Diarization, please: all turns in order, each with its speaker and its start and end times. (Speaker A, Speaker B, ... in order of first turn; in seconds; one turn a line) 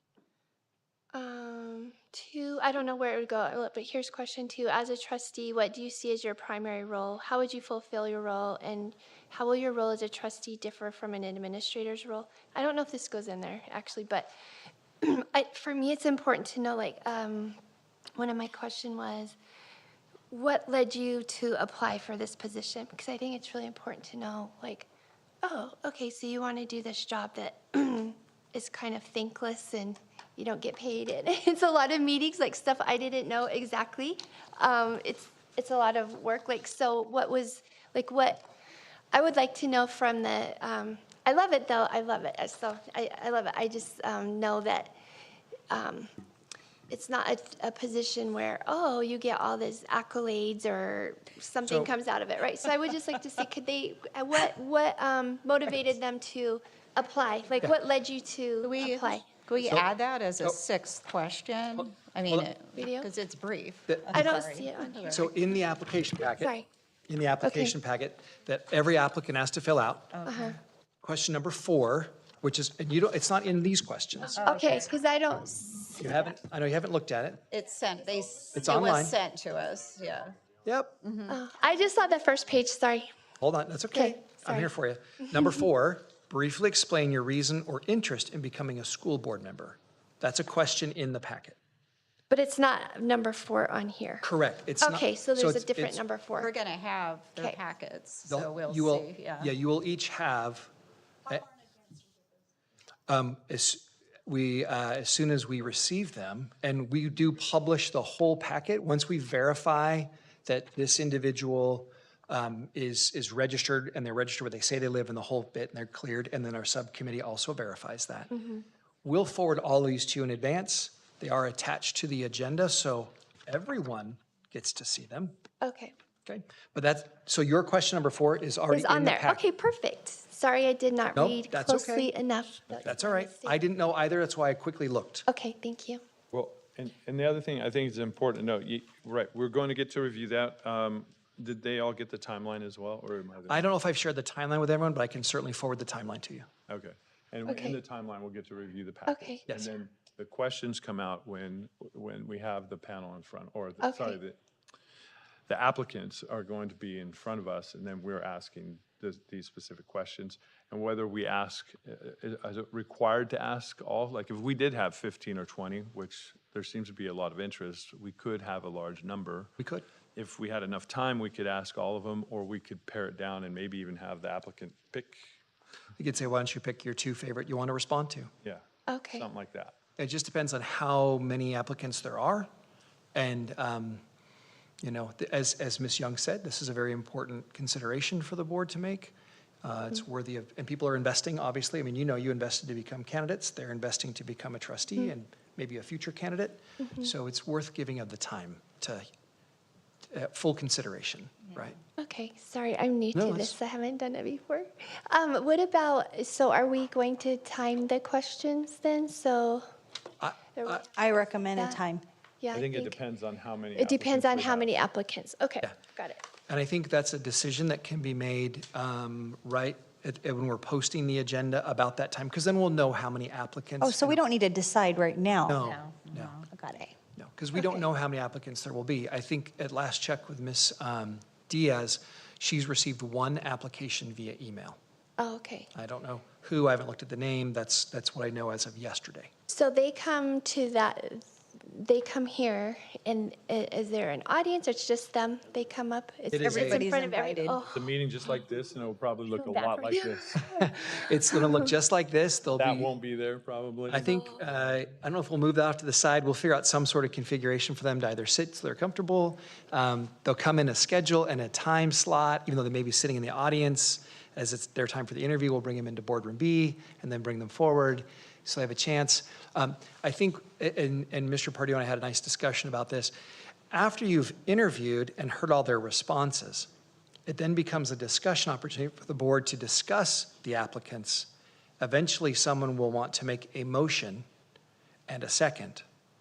Speaker A: 1.1-14.3
Speaker A: 15.0-17.6
Speaker A: 18.1-19.4
Speaker A: 20.3-24.9
Speaker A: 25.4-38.5
Speaker A: 39.1-45.0
Speaker A: 45.7-46.1
Speaker A: 46.9-59.5
Speaker B: 51.6-51.9
Speaker C: 58.6-65.2
Speaker B: 61.8-62.5
Speaker A: 62.8-63.1
Speaker B: 63.9-64.3
Speaker A: 64.1-65.3
Speaker B: 65.1-66.5
Speaker A: 66.4-66.7
Speaker B: 67.1-70.1
Speaker A: 67.4-67.8
Speaker C: 70.1-70.6
Speaker A: 70.3-70.6
Speaker B: 71.0-74.5
Speaker C: 74.3-74.9
Speaker A: 74.4-76.0
Speaker B: 76.0-77.4
Speaker C: 77.5-80.4
Speaker B: 78.5-79.2
Speaker B: 80.6-81.0
Speaker C: 81.0-81.4
Speaker A: 81.3-83.1
Speaker B: 83.4-91.6
Speaker A: 83.9-84.7
Speaker A: 85.2-85.5
Speaker A: 92.3-94.3
Speaker B: 94.2-96.0
Speaker A: 94.8-96.5
Speaker C: 96.4-99.5
Speaker B: 98.3-100.7
Speaker B: 103.1-118.3
Speaker A: 118.3-118.6
Speaker B: 119.0-125.4
Speaker A: 125.6-125.9
Speaker B: 126.3-129.4
Speaker A: 128.7-133.6
Speaker B: 131.2-132.1
Speaker B: 132.7-135.3
Speaker A: 135.3-136.0
Speaker D: 136.3-143.7
Speaker B: 143.5-146.5
Speaker D: 146.7-154.4
Speaker A: 147.5-147.8
Speaker A: 149.1-149.4
Speaker A: 153.8-154.2
Speaker D: 155.5-169.5
Speaker B: 169.6-169.8
Speaker D: 170.2-175.2
Speaker B: 176.0-178.3
Speaker D: 178.4-179.8
Speaker A: 178.9-179.3
Speaker B: 180.0-182.5
Speaker B: 183.2-184.0
Speaker B: 184.8-199.1
Speaker A: 196.8-197.1
Speaker B: 200.1-201.8
Speaker A: 202.0-209.7
Speaker B: 203.1-203.6
Speaker B: 210.2-210.8
Speaker A: 210.6-211.8
Speaker E: 210.9-212.1
Speaker A: 212.4-213.0
Speaker D: 212.5-214.7
Speaker A: 213.8-216.2
Speaker B: 216.5-224.2
Speaker E: 223.8-226.9
Speaker B: 225.5-226.4
Speaker C: 225.6-226.4
Speaker B: 227.2-234.8
Speaker A: 235.2-235.7
Speaker B: 235.7-239.3
Speaker A: 239.5-247.9
Speaker B: 246.3-246.9
Speaker E: 246.4-247.6
Speaker D: 247.7-250.6
Speaker A: 249.3-251.6
Speaker B: 250.4-252.9
Speaker D: 252.6-254.2
Speaker B: 253.9-273.1
Speaker B: 273.7-276.7
Speaker B: 277.3-284.3
Speaker B: 285.1-285.8